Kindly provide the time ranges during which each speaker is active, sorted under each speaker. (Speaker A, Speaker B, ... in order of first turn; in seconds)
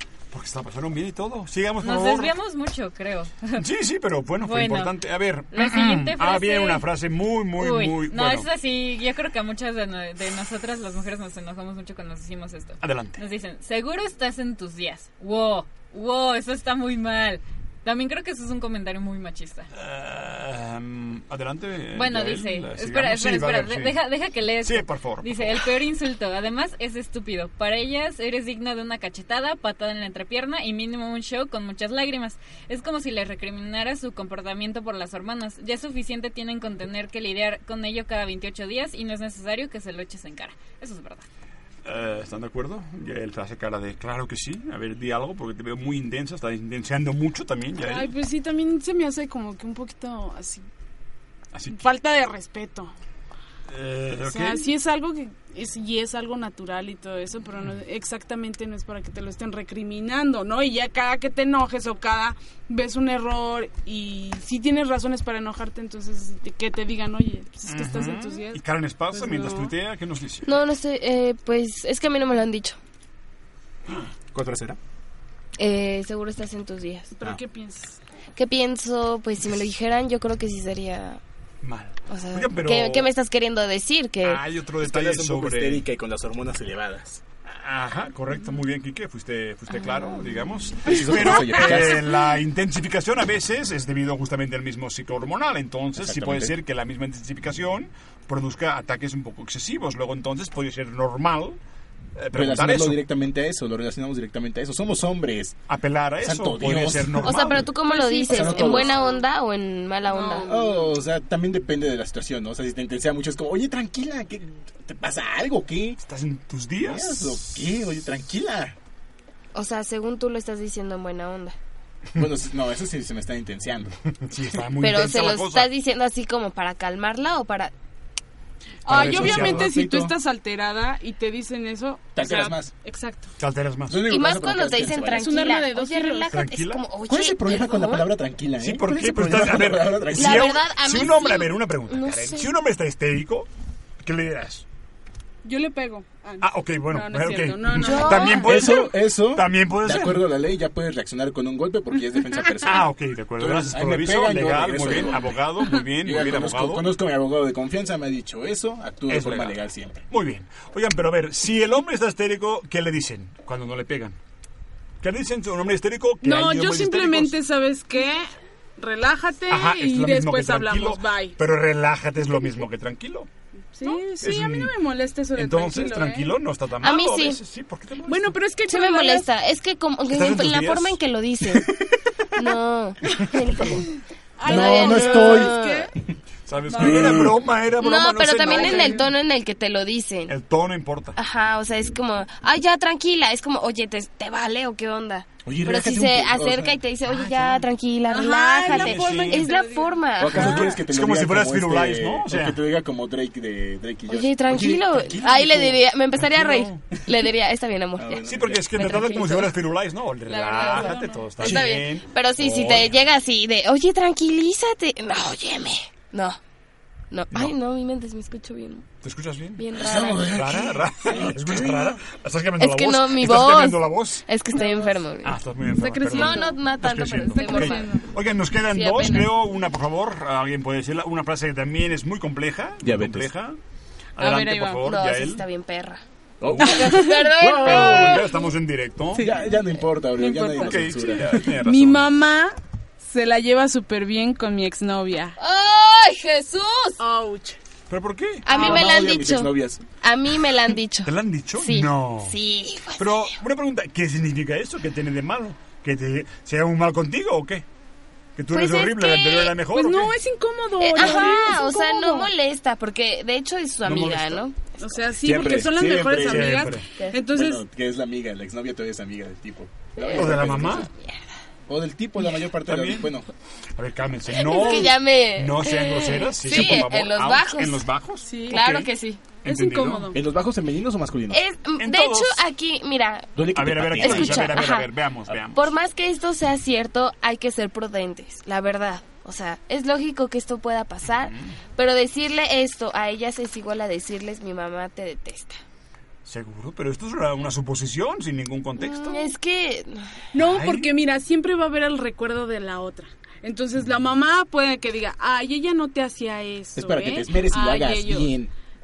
Speaker A: 0.3-2.3, 3.6-8.5, 12.8-13.2, 19.7-24.0, 24.6-25.7, 41.8-48.1, 51.5-51.8, 53.7-54.7, 67.6-70.5, 81.6-83.1, 84.2-85.8, 87.5-101.6, 102.2-103.0, 105.7-107.7, 116.0-117.7, 124.2-125.7, 128.8-129.8, 133.4-134.0, 136.3-136.8, 138.6-143.5, 144.0-144.6, 146.4-150.3, 152.6-156.9, 159.1-159.6, 160.1-164.2, 165.0-167.4, 169.5-173.3, 174.2-174.7, 175.3-178.4, 180.1-181.0, 183.6-183.8, 186.4-189.1, 190.3-191.2, 197.0-197.7, 198.6-199.5, 200.3-202.6, 206.1-206.8, 208.2-212.9, 219.0-224.2, 225.2-233.6, 234.2-235.4, 237.6-239.3, 240.3-242.1, 247.9-248.5, 251.0-252.4, 253.0-257.6, 258.4-260.1, 263.8-264.4, 266.1-266.9, 270.1-270.9, 272.6-273.1, 273.8-278.9, 279.4-280.1, 281.8-282.4, 283.5-285.7, 291.2-291.6, 296.2-299.3, 300.4-300.9
Speaker B: 1.8-3.6, 4.4-4.9, 5.5-6.9, 7.6-19.7, 21.9-41.2
Speaker C: 47.8-50.6, 51.7-52.9, 54.2-68.6, 69.1-69.7, 77.2-78.0, 107.8-109.2, 110.0-110.9, 128.8-133.3, 135.1-136.3, 145.4-148.6, 166.2-171.4, 173.7-176.3, 178.0-179.3, 184.4-185.9, 186.7-187.1, 188.4-189.1, 198.1-200.1, 210.4-211.4, 224.5-225.1, 225.7-228.1, 234.2-234.8, 236.8-238.1, 239.2-239.6, 240.2-240.8, 241.5-245.4, 247.0-247.6, 248.5-248.9, 259.6-262.3, 264.8-267.6, 278.2-278.6, 279.4-280.2, 300.3-308.3
Speaker D: 70.4-72.8, 75.6-77.1, 78.3-81.2, 82.1-84.4, 107.2-110.5, 119.5-121.5, 124.8-127.7, 134.0-138.1, 140.1-142.5, 147.8-148.4, 176.8-177.4, 178.7-181.7, 182.3-183.9, 184.5-185.9, 187.8-190.3, 191.2-200.8, 204.1-209.6, 210.3-216.4, 217.1-218.8, 219.6-220.4, 222.6-225.4, 226.0-228.0, 228.6-229.3, 234.8-236.0, 236.6-238.3, 245.4-247.0, 248.4-253.3, 258.5-259.6, 260.8-264.8, 270.0-271.2, 274.3-277.8, 278.5-279.4, 281.3-283.3, 283.9-284.9, 285.5-295.6, 298.8-300.1
Speaker E: 74.3-74.8, 84.8-87.2, 90.8-92.1, 96.0-96.5, 102.3-105.6, 106.2-107.7, 108.3-109.0, 110.4-116.0, 116.8-118.8, 122.2-123.9, 128.8-130.1, 132.1-132.7, 133.9-135.4, 137.1-140.6, 148.3-155.4, 156.0-160.0, 184.4-185.5, 186.8-187.4, 195.4-196.8, 200.2-205.8, 208.0-209.0, 211.4-211.7, 219.8-221.9, 232.8-233.3, 236.4-238.2, 239.2-241.5, 248.5-249.8, 265.2-266.8, 267.3-270.9, 271.7-273.3, 280.1-281.4, 283.4-284.7, 306.7-308.5